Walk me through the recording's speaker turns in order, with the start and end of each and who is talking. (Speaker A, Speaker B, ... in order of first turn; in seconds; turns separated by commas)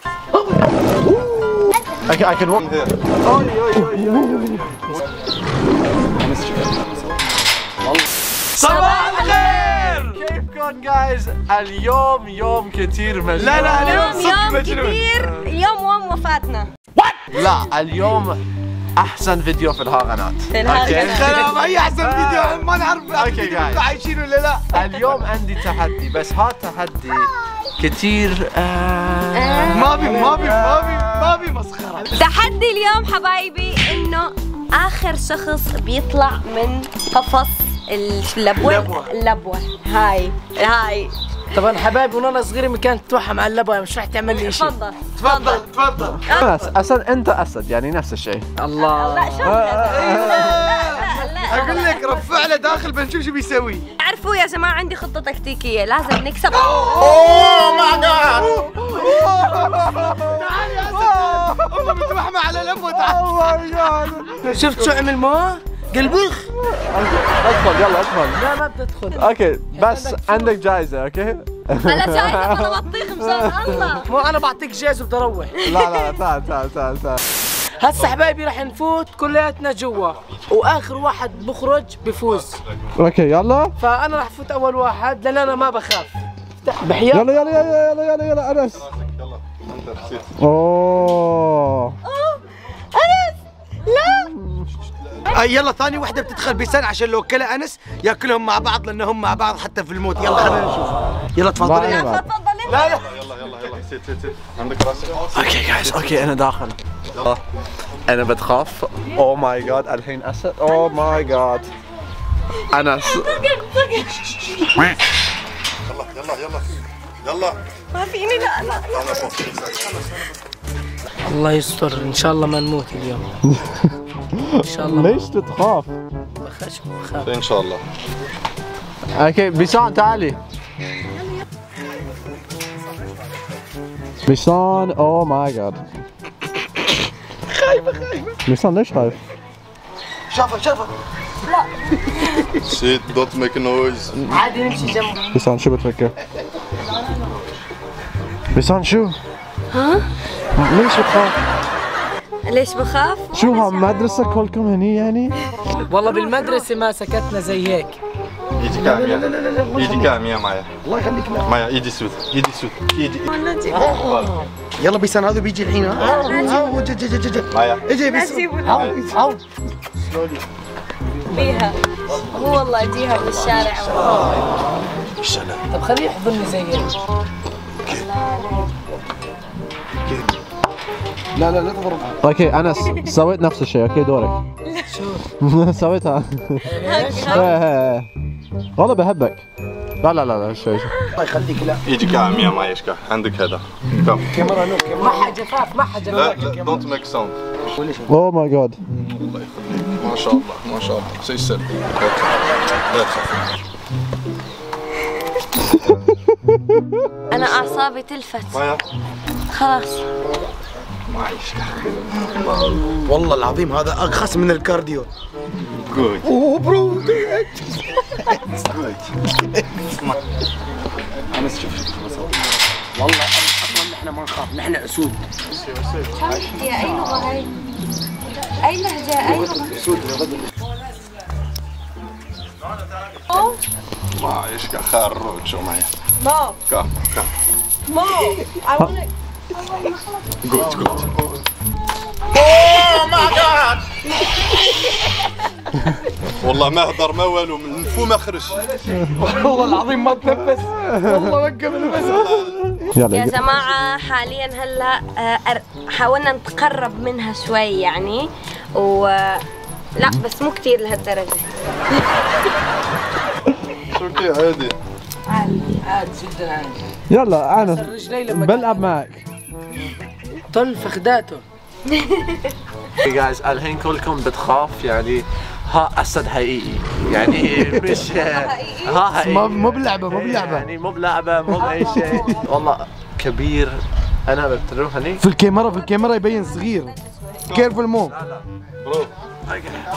Speaker A: 1.0-1.7, Speaker B: 2.1-2.6, Speaker C: 2.5-2.9, Speaker B: 3.2-5.0, Speaker A: 6.2-7.2, Speaker A: 7.8-9.9, Speaker D: 8.6-10.0, Speaker B: 8.9-14.3, Speaker A: 13.3-15.1, Speaker D: 13.5-16.7, Speaker A: 17.0-17.7, Speaker B: 17.3-18.4, Speaker B: 18.9-23.9, Speaker D: 20.5-21.5, Speaker A: 20.7-24.8, Speaker B: 24.7-31.1, Speaker D: 29.3-30.1, Speaker A: 29.7-32.2, Speaker D: 32.1-41.1, Speaker A: 38.6-39.1, Speaker E: 41.5-44.7, Speaker D: 44.3-45.6, Speaker A: 45.2-46.5, Speaker D: 46.3-46.5, Speaker B: 46.3-50.6, Speaker D: 48.8-52.0, Speaker A: 50.0-53.9, Speaker E: 51.5-52.4, Speaker D: 54.0-57.6, Speaker A: 56.5-58.5, Speaker B: 57.1-62.0, Speaker A: 59.2-63.6, Speaker B: 62.9-64.4, Speaker E: 64.5-66.5, Speaker B: 66.6-68.4, Speaker E: 68.3-70.5, Speaker B: 69.1-73.9, Speaker D: 71.8-74.1, Speaker E: 74.1-75.5, Speaker B: 75.6-77.2, Speaker D: 75.7-76.2, Speaker E: 77.8-82.6, Speaker C: 82.3-82.9, Speaker B: 83.0-83.7, Speaker E: 83.8-87.5, Speaker B: 87.1-88.8, Speaker C: 88.7-90.3, Speaker B: 90.4-92.0, Speaker D: 92.0-94.3, Speaker B: 94.1-94.6, Speaker C: 94.8-95.5, Speaker A: 95.3-102.0, Speaker B: 101.5-102.3, Speaker D: 101.7-103.0, Speaker A: 102.7-103.0, Speaker C: 102.7-106.3, Speaker B: 105.3-107.4, Speaker C: 107.1-107.3, Speaker B: 108.1-111.7, Speaker B: 112.7-113.5, Speaker D: 113.0-114.1, Speaker C: 115.8-117.6, Speaker D: 117.9-119.4, Speaker C: 118.9-120.0, Speaker E: 121.2-123.2, Speaker B: 123.5-123.8, Speaker B: 124.4-126.0, Speaker E: 124.6-125.2, Speaker E: 126.4-127.3, Speaker C: 127.2-127.8, Speaker B: 129.1-130.4, Speaker B: 134.2-135.8, Speaker E: 137.6-138.0, Speaker B: 138.4-139.2, Speaker A: 140.3-140.9, Speaker D: 141.5-142.4, Speaker C: 142.6-144.2, Speaker E: 144.3-145.3, Speaker B: 145.3-146.1, Speaker B: 148.5-149.2, Speaker D: 149.7-150.0, Speaker B: 150.6-151.4, Speaker D: 152.5-154.1, Speaker B: 153.3-155.3, Speaker E: 155.8-158.0, Speaker C: 158.6-160.7, Speaker A: 158.7-160.2, Speaker A: 160.8-161.5, Speaker C: 161.4-163.3, Speaker D: 163.3-164.1, Speaker C: 163.8-164.3, Speaker E: 163.9-164.2, Speaker A: 164.8-169.2, Speaker D: 166.0-166.8, Speaker C: 167.5-167.9, Speaker D: 168.0-168.9, Speaker C: 168.6-169.0, Speaker E: 168.7-169.4, Speaker D: 171.3-174.3, Speaker C: 175.2-175.6, Speaker E: 175.7-176.9, Speaker D: 177.8-178.6, Speaker A: 181.3-182.1, Speaker B: 182.2-184.4, Speaker D: 184.6-184.9, Speaker E: 184.9-185.2, Speaker B: 185.4-188.1, Speaker E: 186.7-187.6, Speaker D: 186.7-187.6, Speaker B: 188.8-189.4, Speaker B: 190.0-190.9, Speaker A: 191.2-191.8, Speaker C: 191.8-194.3, Speaker A: 194.3-195.4, Speaker E: 195.0-196.4, Speaker C: 196.0-197.4, Speaker A: 196.1-196.8, Speaker A: 197.7-198.1, Speaker B: 198.1-198.8, Speaker C: 198.9-203.4, Speaker D: 207.3-208.6, Speaker C: 208.5-208.8, Speaker D: 209.5-210.0, Speaker C: 211.1-212.8, Speaker A: 213.1-215.1, Speaker C: 215.8-216.3, Speaker A: 216.2-219.8, Speaker A: 221.3-222.4, Speaker A: 222.9-225.2, Speaker D: 226.1-227.5, Speaker D: 228.6-229.8, Speaker A: 229.3-230.5, Speaker D: 233.3-233.6, Speaker C: 234.2-235.9, Speaker D: 236.2-236.6, Speaker C: 236.7-237.3, Speaker D: 238.0-238.9, Speaker C: 240.4-241.4, Speaker C: 242.5-243.7, Speaker C: 246.4-248.7, Speaker A: 248.9-252.4, Speaker C: 251.9-252.8, Speaker B: 252.9-253.4, Speaker D: 253.1-259.4, Speaker D: 259.9-261.4, Speaker C: 263.9-264.8, Speaker D: 265.3-265.8, Speaker E: 265.8-266.8, Speaker B: 267.1-269.2, Speaker E: 267.5-268.9, Speaker E: 270.5-271.4, Speaker D: 271.9-272.5, Speaker B: 273.0-285.2, Speaker D: 278.0-279.1, Speaker A: 279.1-280.7, Speaker A: 281.6-282.4, Speaker E: 281.6-282.4, Speaker A: 285.2-286.9, Speaker D: 285.7-287.4, Speaker C: 287.5-287.8, Speaker A: 287.5-288.1, Speaker B: 288.1-288.4, Speaker C: 288.8-289.1, Speaker B: 289.5-289.9